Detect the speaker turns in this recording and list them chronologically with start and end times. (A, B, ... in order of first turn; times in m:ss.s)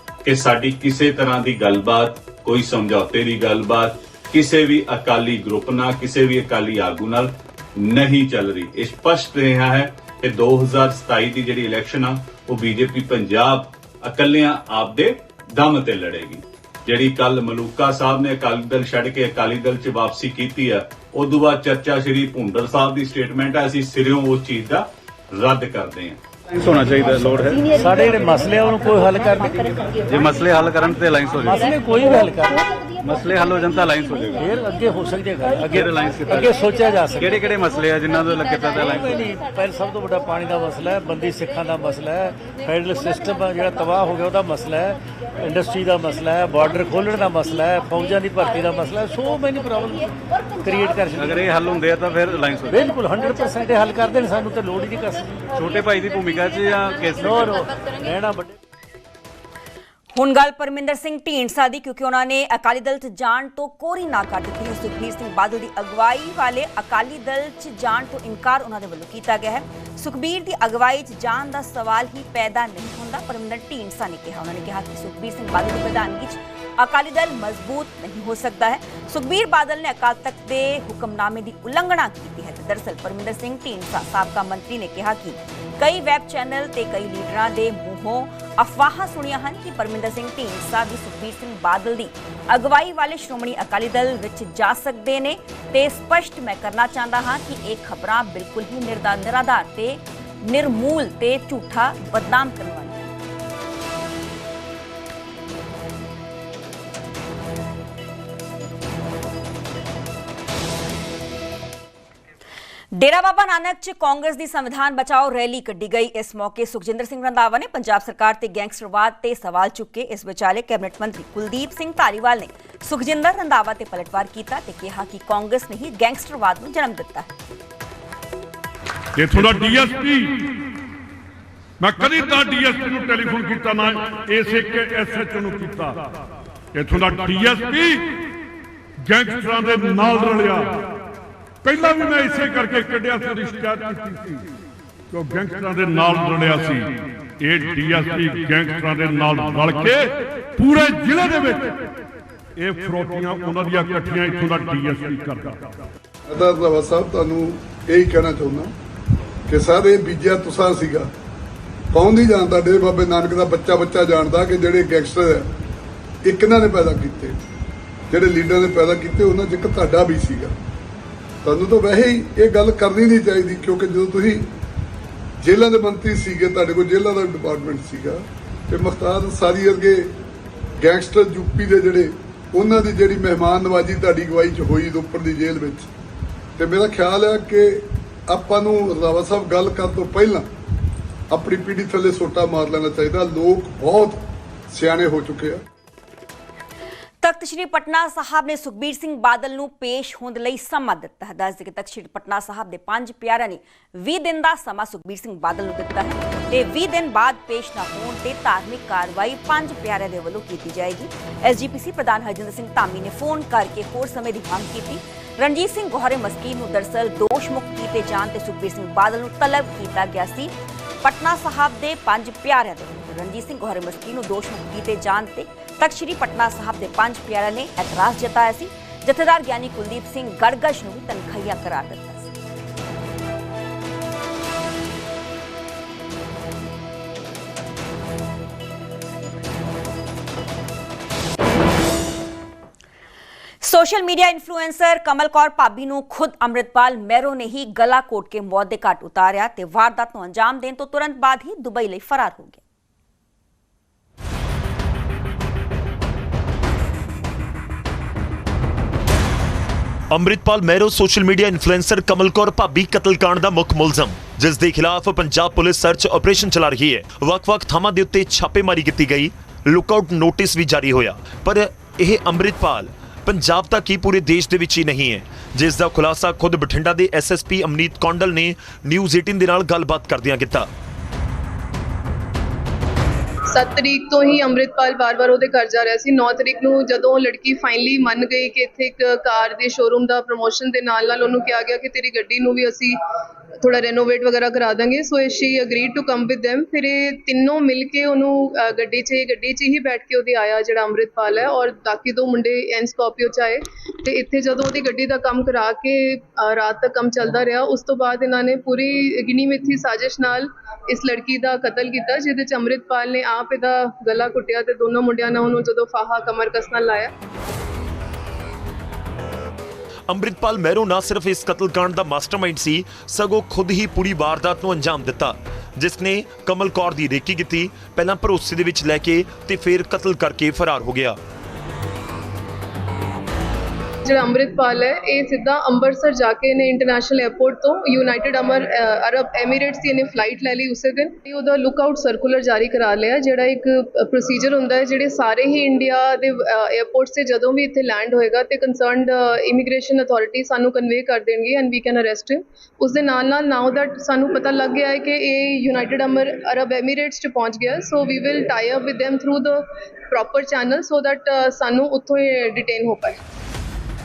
0:00.2-0:26.2 A
0:26.5-0:27.5 B
0:27.7-0:29.6 C
0:30.1-0:31.5 B
0:31.3-0:32.6 C
0:33.0-0:34.3 B
0:34.4-0:37.5 C
0:35.8-0:36.4 B
0:37.3-0:39.1 B
0:38.6-0:50.1 C
0:50.6-0:51.6 C
0:51.2-0:52.6 B
0:52.6-0:55.5 C
0:55.6-0:57.4 B
0:57.1-0:58.5 C
1:00.1-1:43.1 D
1:52.9-2:07.3 D
2:09.2-2:10.5 E
2:11.8-2:16.1 E
2:16.7-2:18.1 E
2:19.0-2:20.9 E
2:21.6-2:24.4 E
2:25.1-2:31.8 E
2:32.6-2:35.6 E
2:36.3-2:38.7 F
2:39.5-2:41.1 F
2:41.9-2:45.5 F
2:46.2-2:47.4 F
2:48.1-2:50.5 F
2:51.4-2:54.4 F
2:55.4-3:00.1 F
3:00.8-3:05.9 F
3:06.6-3:10.4 F
3:11.3-3:15.6 F
3:17.2-3:40.5 D
3:41.0-3:52.3 D
4:03.6-4:12.6 D
4:20.1-4:40.7 G
4:43.5-4:52.9 H
4:53.6-5:17.1 H
5:20.1-5:31.2 G
5:34.1-5:59.6 H
6:00.1-6:03.2 H